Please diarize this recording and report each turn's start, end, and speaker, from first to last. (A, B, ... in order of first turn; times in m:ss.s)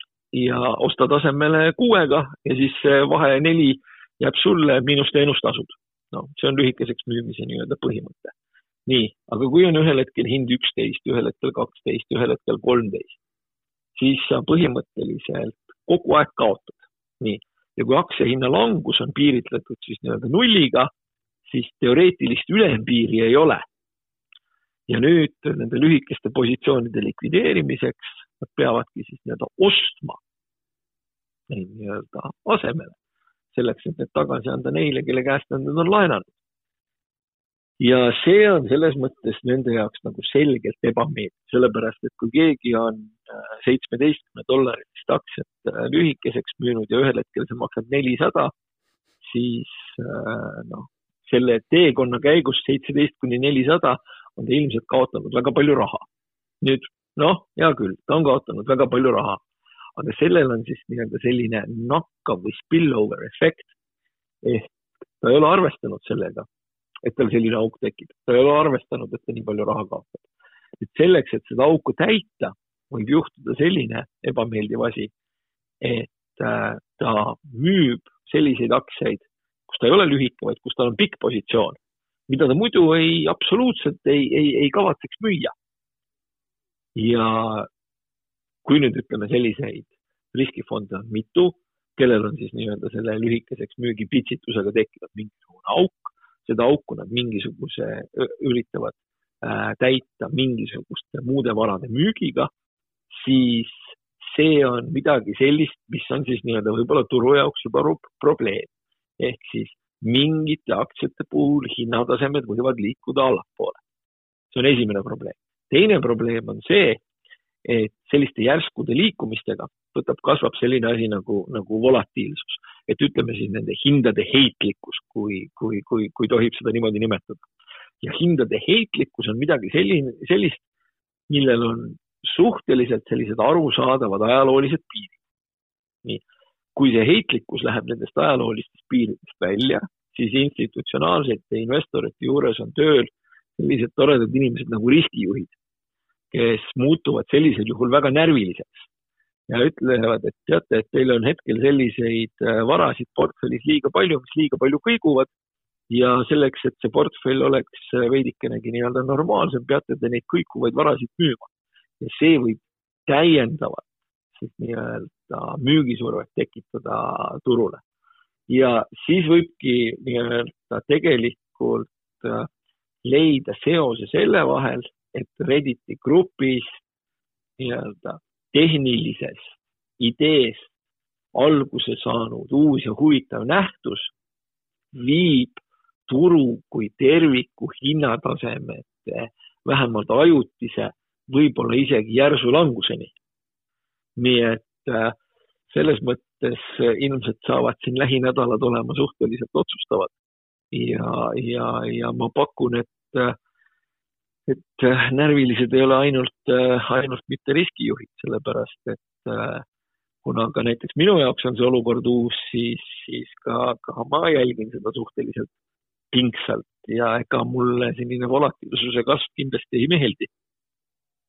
0:00.3-0:08.3 A
0:08.9-0:13.2 A
0:14.0-0:20.9 A
0:21.4-0:23.6 A
0:24.9-0:30.2 A
0:31.5-0:33.0 A
0:33.5-0:36.3 A
0:37.8-0:48.5 A
0:49.2-0:56.0 A
0:56.6-0:59.4 A
1:00.0-1:03.7 A
1:04.4-1:04.7 A
1:05.2-1:06.5 A
1:07.0-1:10.2 A
1:10.8-1:15.1 A
1:15.8-1:25.5 A
1:27.0-1:27.7 A
1:28.6-1:42.5 A
1:43.1-1:53.8 A
1:54.5-1:57.0 A
1:57.6-2:07.4 A
2:08.0-2:10.6 A
2:11.3-2:15.2 A
2:16.7-2:25.5 A
2:26.3-2:28.9 A
2:29.5-2:35.3 A
2:35.9-2:41.5 A
2:42.0-2:47.8 A
2:48.5-2:52.5 A
2:53.0-2:56.8 A
2:57.6-3:00.7 A
3:01.3-3:04.1 A
3:04.9-3:13.1 A
3:14.2-3:15.2 A
3:15.7-3:20.1 A
3:20.7-3:23.4 A
3:24.5-3:29.6 A
3:30.2-3:35.5 A
3:36.1-3:40.3 A